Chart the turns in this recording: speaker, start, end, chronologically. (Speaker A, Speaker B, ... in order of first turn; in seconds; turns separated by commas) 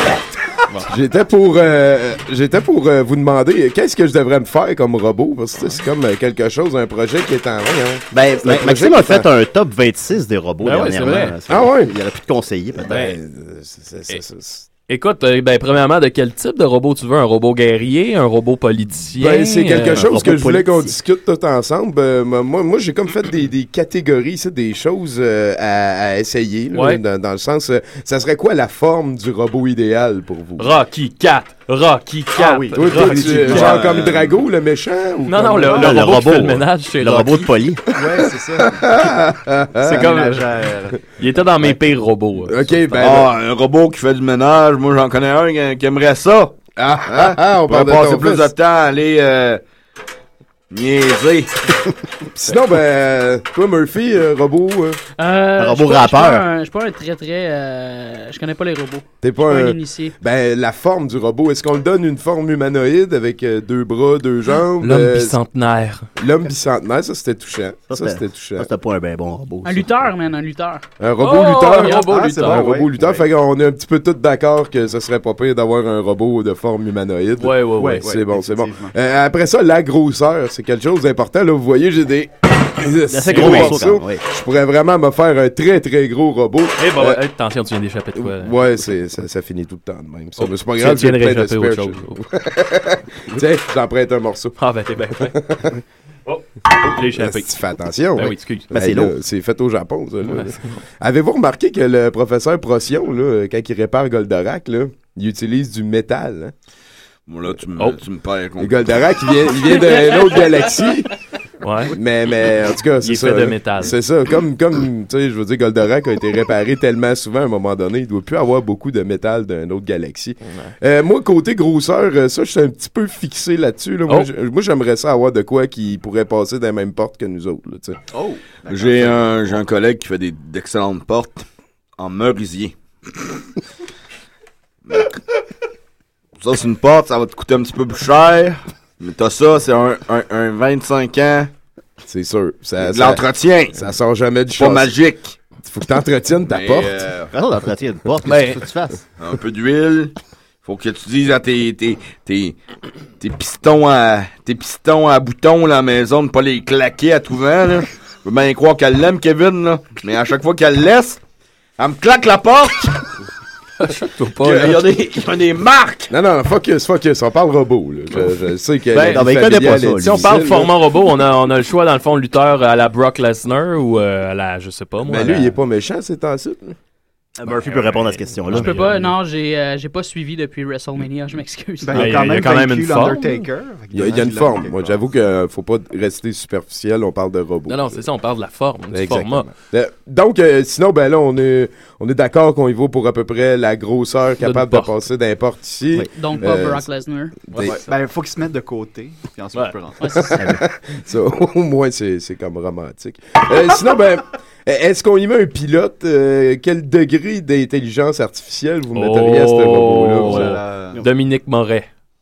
Speaker A: 0.8-9.3, Speaker B: 8.1-13.1, Speaker C: 10.6-11.4, Speaker A: 11.5-11.9, Speaker A: 12.9-14.7, Speaker C: 14.9-20.1, Speaker A: 19.2-30.7, Speaker B: 19.9-20.9, Speaker C: 26.7-27.0, Speaker C: 30.6-33.9, Speaker D: 32.3-33.9, Speaker A: 32.8-36.1, Speaker E: 33.5-34.4, Speaker C: 35.3-37.5, Speaker B: 35.7-37.9, Speaker D: 37.9-39.0, Speaker A: 38.6-40.1, Speaker D: 39.8-41.0, Speaker C: 39.8-40.4, Speaker C: 41.2-43.0, Speaker A: 42.5-43.3, Speaker E: 43.0-49.6, Speaker A: 46.8-48.5, Speaker E: 50.7-51.7, Speaker A: 52.3-55.0, Speaker F: 55.2-60.2, Speaker B: 55.6-56.5, Speaker A: 59.2-65.4, Speaker C: 64.8-66.1, Speaker A: 66.2-68.7, Speaker B: 67.9-70.1, Speaker F: 69.6-70.8, Speaker A: 71.0-87.2, Speaker C: 71.2-72.8, Speaker F: 71.7-72.1, Speaker D: 72.1-73.2, Speaker C: 77.4-78.1, Speaker D: 77.8-78.9, Speaker B: 83.1-84.2, Speaker C: 83.3-83.7, Speaker C: 86.8-88.6, Speaker A: 88.1-94.6, Speaker C: 90.4-92.2, Speaker C: 94.6-95.4, Speaker A: 95.2-95.8, Speaker C: 96.3-97.5, Speaker A: 97.1-106.5, Speaker C: 98.2-98.7, Speaker B: 98.7-99.2, Speaker C: 100.3-100.7, Speaker E: 107.3-108.9, Speaker A: 108.6-111.1, Speaker C: 111.6-112.0, Speaker A: 111.9-128.0, Speaker C: 113.0-113.9, Speaker C: 120.5-120.7, Speaker D: 128.1-129.3, Speaker E: 128.7-131.4, Speaker E: 132.0-133.4, Speaker E: 134.9-135.2, Speaker E: 136.4-141.5, Speaker A: 142.1-144.9, Speaker E: 142.8-143.8, Speaker E: 144.6-145.4, Speaker A: 145.6-147.0, Speaker E: 146.5-147.3, Speaker B: 147.3-149.0, Speaker C: 148.3-148.6, Speaker E: 149.2-152.6, Speaker E: 153.2-161.2, Speaker E: 161.8-163.0, Speaker C: 163.8-164.8, Speaker E: 164.4-166.1, Speaker A: 166.1-170.7, Speaker C: 168.9-175.6, Speaker B: 169.0-170.3, Speaker A: 175.0-176.8, Speaker B: 177.4-179.1, Speaker C: 177.7-179.0, Speaker F: 178.5-182.2, Speaker D: 181.8-185.0, Speaker C: 181.9-183.5, Speaker A: 183.9-188.1, Speaker C: 187.7-189.5, Speaker A: 188.9-196.9, Speaker C: 194.4-195.0, Speaker F: 196.1-197.4, Speaker A: 197.5-197.8, Speaker C: 197.5-197.9, Speaker D: 197.6-200.2, Speaker F: 200.0-200.4, Speaker A: 200.1-210.6, Speaker B: 200.4-200.6, Speaker C: 208.9-211.9, Speaker D: 210.2-211.0